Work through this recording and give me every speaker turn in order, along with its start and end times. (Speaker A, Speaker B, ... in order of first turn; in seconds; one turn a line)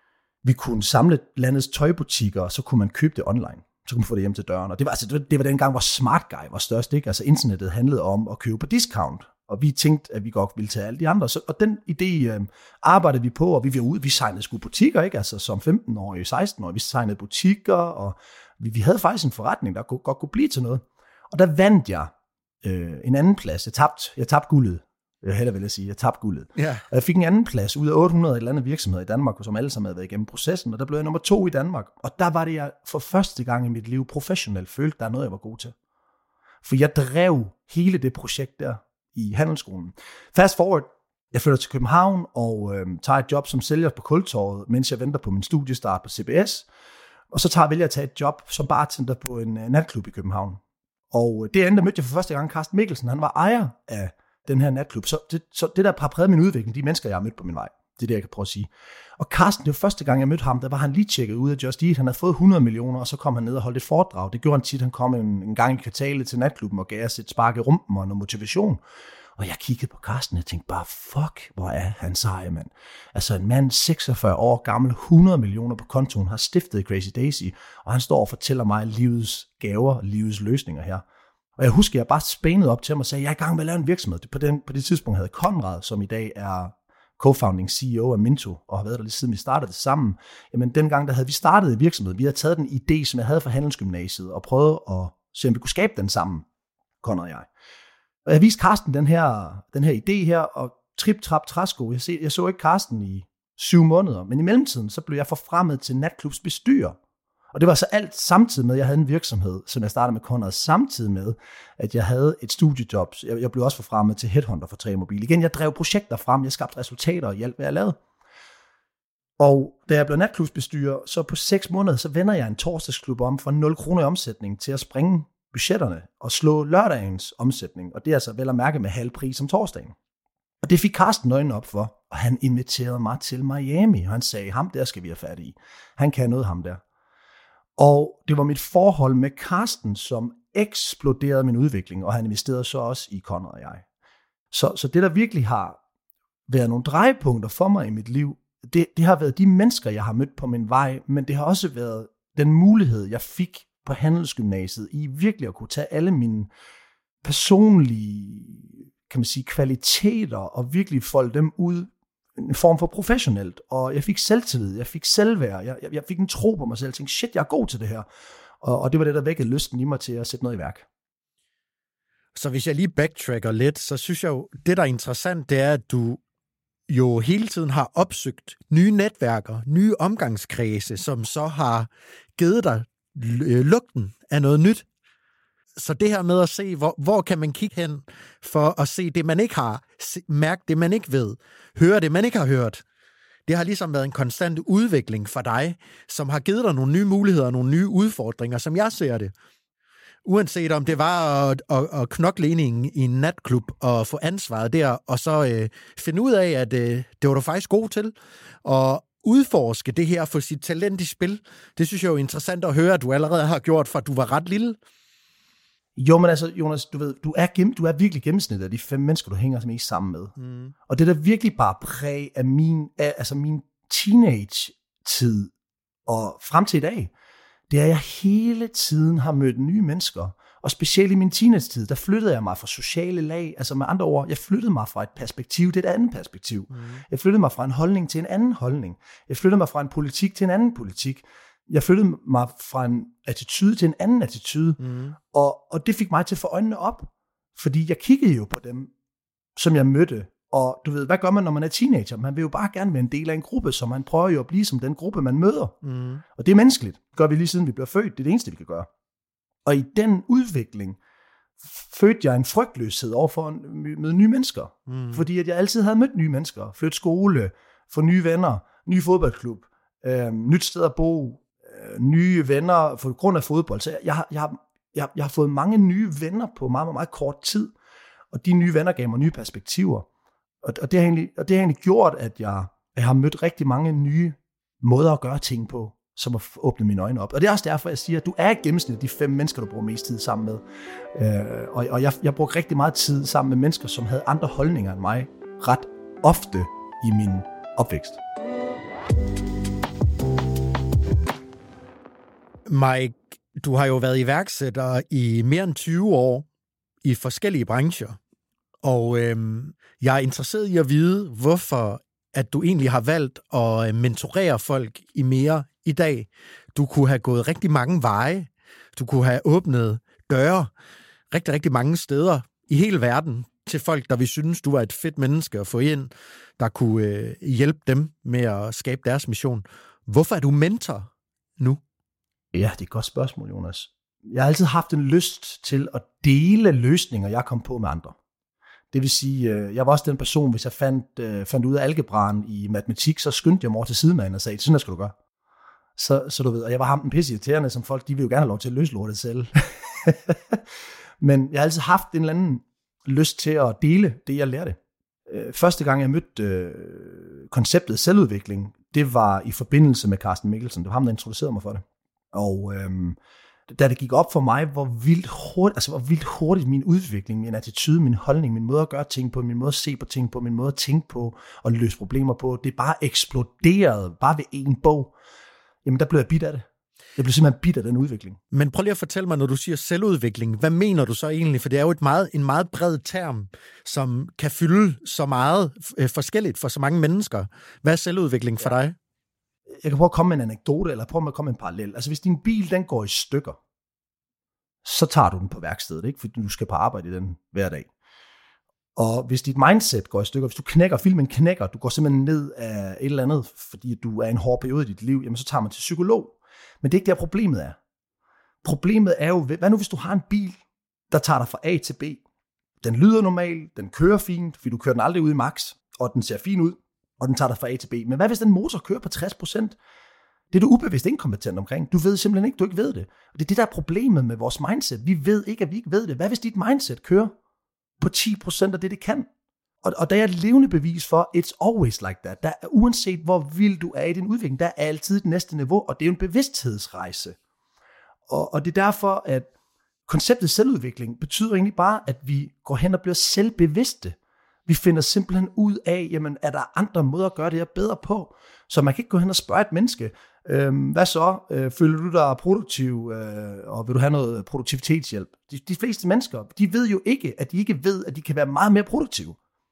Speaker A: 0.4-22.1
Speaker A: 22.6-35.7
Speaker B: 26.6-26.8
Speaker A: 36.6-46.7
Speaker A: 47.3-50.6
Speaker A: 51.1-68.8
Speaker A: 69.4-81.0
Speaker A: 81.6-96.4
Speaker A: 97.0-97.5
Speaker A: 98.2-107.0
Speaker A: 107.5-118.0
Speaker A: 119.4-129.9
Speaker A: 130.6-136.8
Speaker A: 137.8-143.8
Speaker A: 144.5-145.8
Speaker A: 146.5-156.5
Speaker A: 157.2-168.1
Speaker A: 168.6-170.8
Speaker B: 172.3-176.2
Speaker B: 176.9-184.8
Speaker B: 185.8-192.8
Speaker B: 193.5-199.3
Speaker B: 200.2-214.8
Speaker A: 215.9-220.3
Speaker B: 220.4-220.7
Speaker A: 220.9-225.5
Speaker A: 226.1-227.1
Speaker A: 227.7-244.8
Speaker B: 236.7-237.0
Speaker B: 244.8-245.2
Speaker A: 245.3-248.9
Speaker A: 249.6-255.8
Speaker B: 255.8-256.2
Speaker A: 256.4-258.9
Speaker A: 259.6-261.0
Speaker A: 261.6-277.7
Speaker B: 264.9-265.2
Speaker A: 278.3-280.1
Speaker A: 280.6-290.6
Speaker A: 291.1-298.2
Speaker B: 302.7-306.4
Speaker B: 307.0-308.2
Speaker B: 308.8-320.7
Speaker B: 321.3-331.8
Speaker A: 332.5-338.1
Speaker A: 338.9-345.1
Speaker A: 345.9-350.6
Speaker A: 351.2-361.8
Speaker A: 362.3-363.2
Speaker A: 363.7-375.1
Speaker A: 375.8-376.6
Speaker A: 377.2-378.4
Speaker B: 378.5-388.9
Speaker A: 389.8-393.6
Speaker A: 394.8-397.9
Speaker A: 398.9-407.8
Speaker A: 408.6-412.2
Speaker A: 412.8-419.8
Speaker A: 420.5-427.3
Speaker A: 428.0-429.3
Speaker A: 429.8-437.4
Speaker A: 438.3-439.5
Speaker A: 440.1-444.1
Speaker A: 444.7-459.4